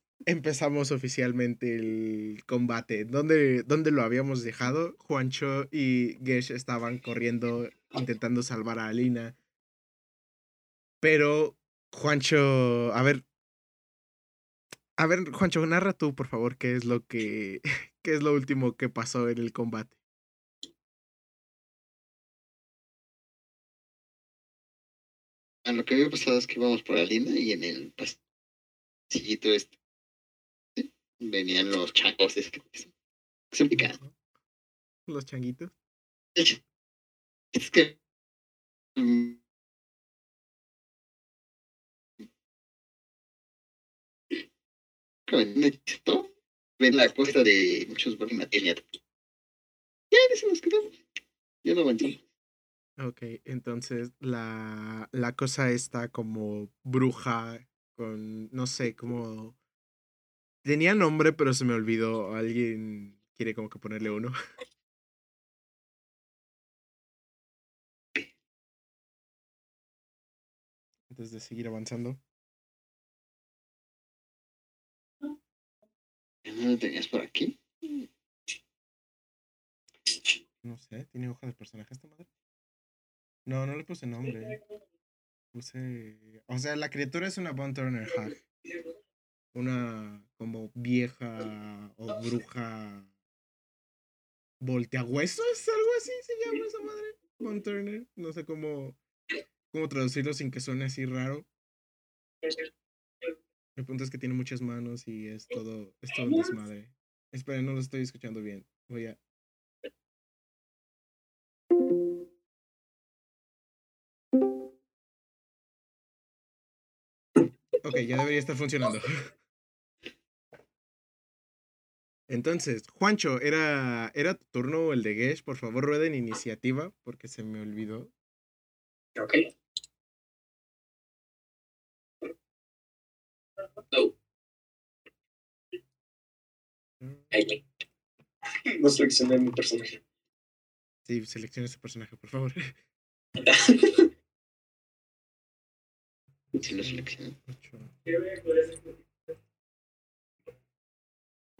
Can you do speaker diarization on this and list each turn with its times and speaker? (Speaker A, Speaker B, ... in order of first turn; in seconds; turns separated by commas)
Speaker A: 0.3-9.4, Speaker A: 11.0-13.2, Speaker A: 15.0-20.0, Speaker B: 25.6-28.2, Speaker B: 29.1-29.7, Speaker B: 30.8-32.9, Speaker B: 33.5-34.0, Speaker A: 33.7-34.2, Speaker A: 35.1-35.7, Speaker B: 37.5-38.0, Speaker B: 39.0-39.4, Speaker B: 45.3-48.9, Speaker B: 50.1-50.9, Speaker B: 51.6-52.2, Speaker A: 53.0-59.6, Speaker A: 60.6-64.3, Speaker A: 71.1-72.2, Speaker B: 76.5-78.0, Speaker A: 80.6-82.3, Speaker A: 83.5-84.5, Speaker A: 85.5-88.4, Speaker A: 89.5-93.1, Speaker A: 94.6-99.0, Speaker A: 99.7-101.5, Speaker A: 103.8-109.2, Speaker A: 117.8-119.3, Speaker A: 122.3-128.1, Speaker C: 129.2-129.4, Speaker A: 137.0-137.3, Speaker C: 137.3-137.6, Speaker C: 138.7-140.0, Speaker A: 141.1-142.8, Speaker C: 143.4-144.1, Speaker B: 146.6-147.4, Speaker A: 146.8-147.9, Speaker C: 148.3-148.6